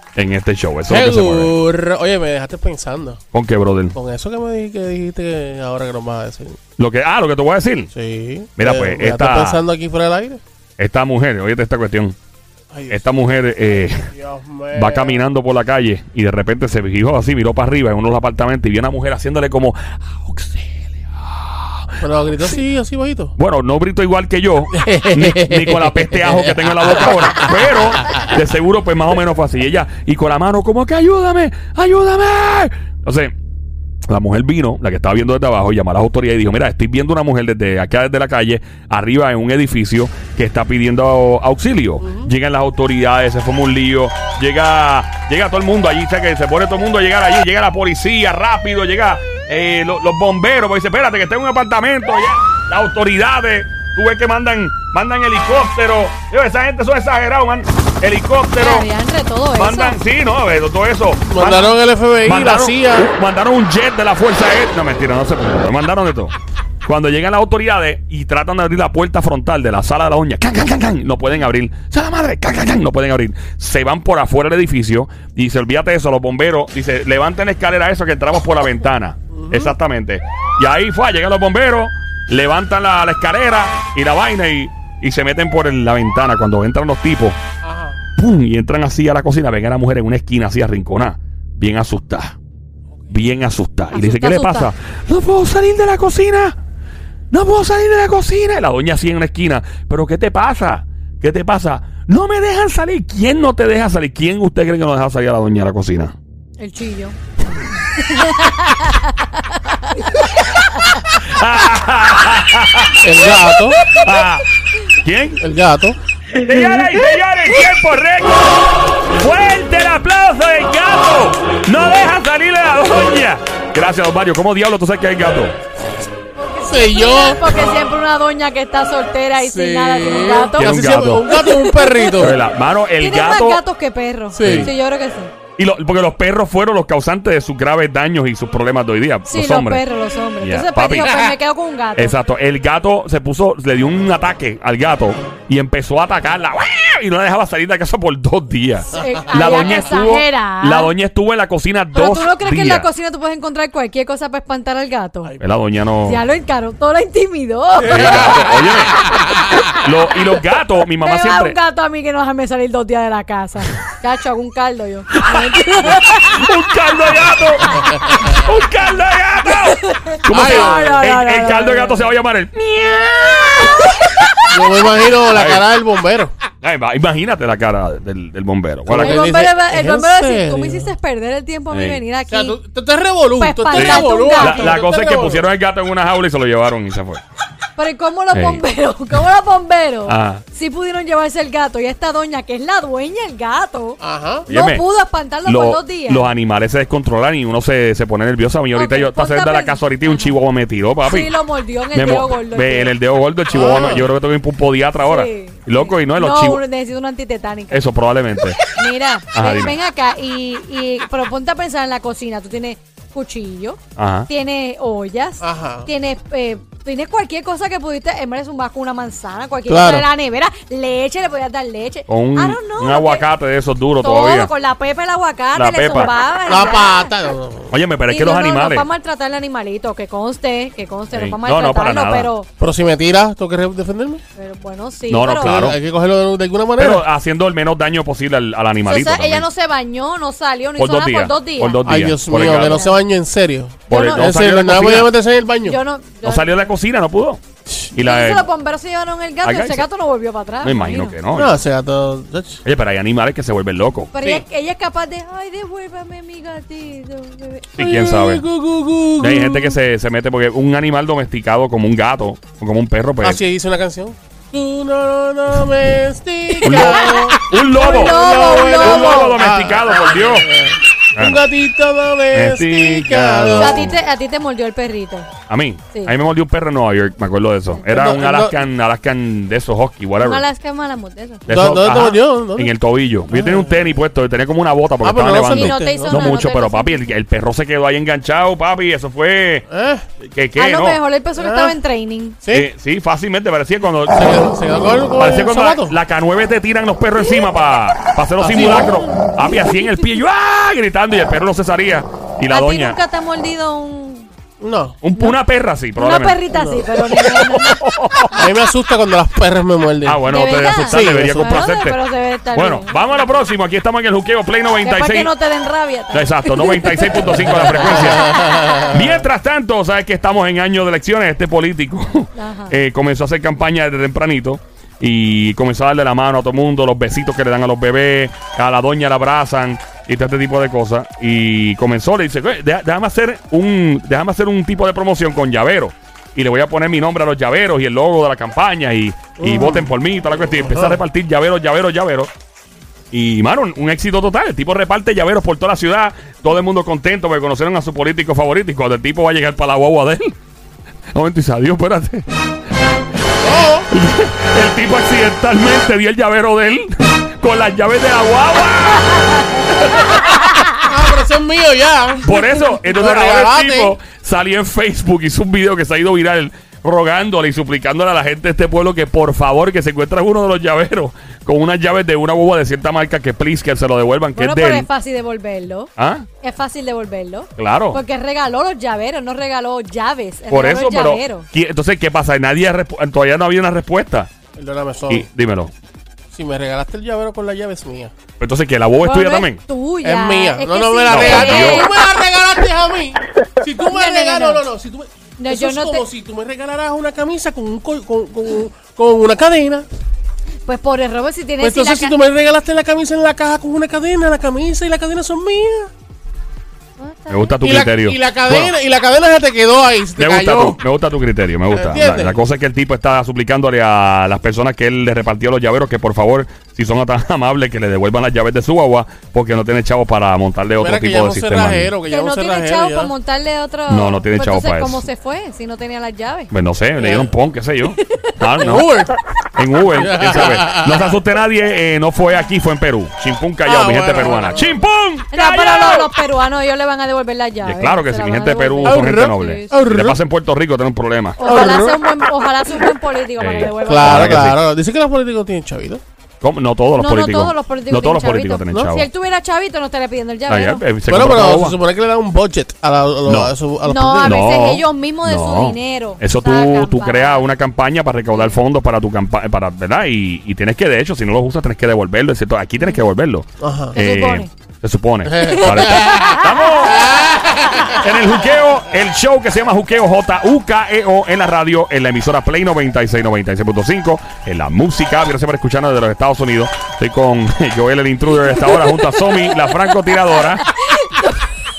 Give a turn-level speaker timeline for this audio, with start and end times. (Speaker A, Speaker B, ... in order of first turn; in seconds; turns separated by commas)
Speaker A: 0.1-1.5, Speaker B: 0.9-3.2, Speaker A: 3.3-4.0, Speaker B: 3.9-6.6, Speaker A: 6.8-7.9, Speaker B: 7.9-10.4, Speaker A: 8.6-9.6, Speaker A: 10.8-12.2, Speaker B: 12.7-13.0, Speaker A: 12.9-14.1, Speaker B: 14.0-15.2, Speaker A: 14.7-22.6, Speaker B: 22.0-23.4, Speaker A: 23.4-33.3, Speaker B: 24.7-27.6, Speaker A: 34.1-58.9, Speaker B: 42.0-42.3, Speaker C: 58.6-60.0, Speaker A: 59.5-66.3, Speaker B: 61.3-63.1, Speaker A: 66.8-87.4, Speaker B: 79.3-79.8, Speaker B: 87.6-88.0, Speaker A: 88.2-92.4, Speaker A: 93.1-96.6, Speaker C: 93.9-94.7, Speaker A: 97.3-106.1, Speaker C: 106.6-107.2, Speaker C: 108.0-111.1, Speaker A: 110.4-113.0, Speaker B: 113.0-113.8, Speaker A: 113.6-115.4, Speaker B: 115.4-116.0, Speaker A: 116.4-125.5, Speaker C: 126.3-132.3, Speaker B: 126.6-127.6, Speaker B: 129.4-132.4, Speaker A: 130.5-131.3, Speaker A: 132.2-133.6, Speaker C: 133.0-135.3, Speaker B: 134.3-134.7, Speaker A: 134.4-134.7, Speaker A: 135.6-139.8, Speaker C: 139.3-142.2, Speaker A: 140.4-141.2, Speaker A: 142.0-152.9, Speaker C: 148.9-150.9, Speaker C: 151.9-155.4, Speaker A: 155.4-156.2, Speaker C: 156.0-158.2, Speaker A: 157.8-159.1, Speaker B: 158.1-158.4, Speaker A: 159.7-161.6, Speaker C: 161.0-166.4, Speaker A: 165.2-175.7, Speaker C: 167.7-168.5, Speaker C: 169.5-172.1, Speaker B: 170.3-171.0, Speaker B: 174.5-176.3, Speaker A: 176.6-179.2, Speaker B: 178.9-180.9, Speaker C: 178.9-182.6, Speaker A: 181.7-182.0, Speaker B: 182.3-185.5, Speaker C: 183.4-184.8, Speaker A: 183.7-187.2, Speaker C: 187.8-196.3, Speaker A: 188.3-188.6, Speaker A: 190.1-190.4, Speaker B: 194.0-194.5, Speaker A: 194.5-194.8, Speaker A: 195.5-201.3, Speaker C: 198.7-200.3, Speaker C: 201.0-202.9, Speaker A: 201.9-206.6, Speaker B: 203.5-204.1, Speaker C: 205.0-207.9, Speaker A: 207.7-208.6, Speaker C: 208.6-223.2, Speaker A: 209.3-209.8, Speaker A: 214.0-214.3, Speaker B: 215.4-215.9, Speaker B: 219.7-220.1, Speaker A: 222.1-224.5, Speaker C: 224.0-227.2, Speaker A: 225.6-226.1, Speaker B: 226.5-227.7, Speaker A: 227.7-228.9, Speaker C: 228.1-232.5, Speaker A: 231.1-232.3, Speaker B: 232.6-234.2, Speaker C: 234.4-235.7, Speaker A: 235.1-235.8, Speaker B: 235.4-237.1, Speaker A: 236.8-239.4, Speaker C: 238.8-241.9, Speaker A: 240.8-242.8, Speaker B: 241.8-245.8, Speaker C: 242.5-243.0, Speaker C: 243.9-244.3, Speaker A: 243.9-245.1, Speaker C: 245.6-246.7, Speaker A: 246.2-247.4, Speaker A: 247.9-248.5, Speaker C: 248.0-251.2, Speaker A: 249.4-249.8, Speaker A: 250.6-251.6, Speaker B: 251.3-252.6, Speaker A: 252.6-254.1, Speaker C: 254.1-257.9, Speaker A: 257.7-258.4, Speaker B: 257.8-259.8, Speaker A: 259.2-263.4, Speaker B: 263.2-273.8, Speaker C: 266.5-269.4, Speaker A: 266.6-270.5, Speaker A: 271.1-271.4, Speaker A: 272.3-273.9, Speaker C: 273.6-275.3, Speaker A: 275.5-280.4, Speaker B: 277.9-278.6, Speaker C: 280.2-281.5, Speaker A: 281.5-289.7, Speaker B: 281.5-282.7, Speaker B: 283.3-283.8, Speaker B: 285.0-286.3, Speaker C: 285.5-287.0, Speaker B: 289.7-290.1, Speaker A: 290.2-291.0, Speaker C: 290.6-292.4, Speaker B: 291.4-291.8, Speaker A: 292.5-294.5, Speaker B: 294.1-296.0, Speaker A: 295.2-303.0, Speaker B: 298.4-299.3, Speaker C: 302.5-304.3, Speaker B: 304.6-305.0, Speaker A: 305.0-306.4, Speaker C: 306.0-307.8, Speaker B: 306.5-306.9, Speaker A: 307.1-308.3, Speaker B: 308.3-310.2, Speaker A: 310.0-312.0, Speaker C: 310.3-313.1, Speaker B: 310.9-311.5, Speaker A: 312.6-315.3, Speaker C: 314.8-318.9, Speaker A: 316.1-342.3, Speaker B: 318.2-318.7, Speaker C: 322.4-322.8, Speaker B: 339.4-339.9, Speaker B: 340.7-341.0, Speaker A: 343.1-350.4, Speaker A: 351.1-352.2, Speaker B: 353.4-353.9, Speaker A: 353.9-360.7, Speaker B: 360.9-364.0, Speaker A: 362.2-374.9, Speaker C: 374.3-375.9, Speaker A: 376.0-376.3, Speaker C: 376.4-381.5, Speaker A: 377.6-378.0, Speaker A: 380.5-384.3, Speaker B: 384.6-385.3, Speaker A: 385.1-385.7, Speaker B: 386.3-388.1, Speaker A: 388.4-389.6, Speaker C: 389.0-392.0, Speaker B: 390.0-399.9, Speaker A: 391.1-391.9, Speaker C: 393.9-394.6, Speaker C: 395.4-396.1, Speaker C: 400.6-402.1, Speaker B: 401.6-405.9, Speaker C: 407.0-407.8, Speaker A: 407.3-408.7, Speaker B: 407.6-410.8, Speaker A: 410.2-421.9, Speaker B: 411.7-412.4, Speaker B: 420.8-423.1, Speaker C: 422.1-426.5, Speaker A: 423.9-425.1, Speaker A: 426.5-428.9, Speaker B: 427.0-427.3, Speaker C: 427.9-428.3, Speaker B: 428.6-429.2, Speaker A: 429.6-436.1, Speaker B: 429.9-431.2, Speaker B: 433.6-434.8, Speaker C: 435.3-439.8, Speaker A: 437.6-441.4, Speaker B: 438.8-440.2, Speaker C: 441.4-444.3, Speaker B: 441.4-442.0, Speaker A: 443.4-444.6, Speaker B: 443.9-446.0, Speaker A: 446.4-449.1, Speaker C: 447.0-450.8, Speaker A: 450.5-451.8, Speaker B: 451.1-454.5, Speaker A: 453.3-453.5, Speaker C: 453.9-457.5, Speaker A: 454.2-467.2, Speaker B: 463.6-464.0, Speaker C: 463.9-464.5, Speaker B: 465.2-466.2, Speaker C: 465.4-467.1, Speaker B: 466.9-467.9, Speaker A: 467.9-480.7, Speaker C: 478.6-481.6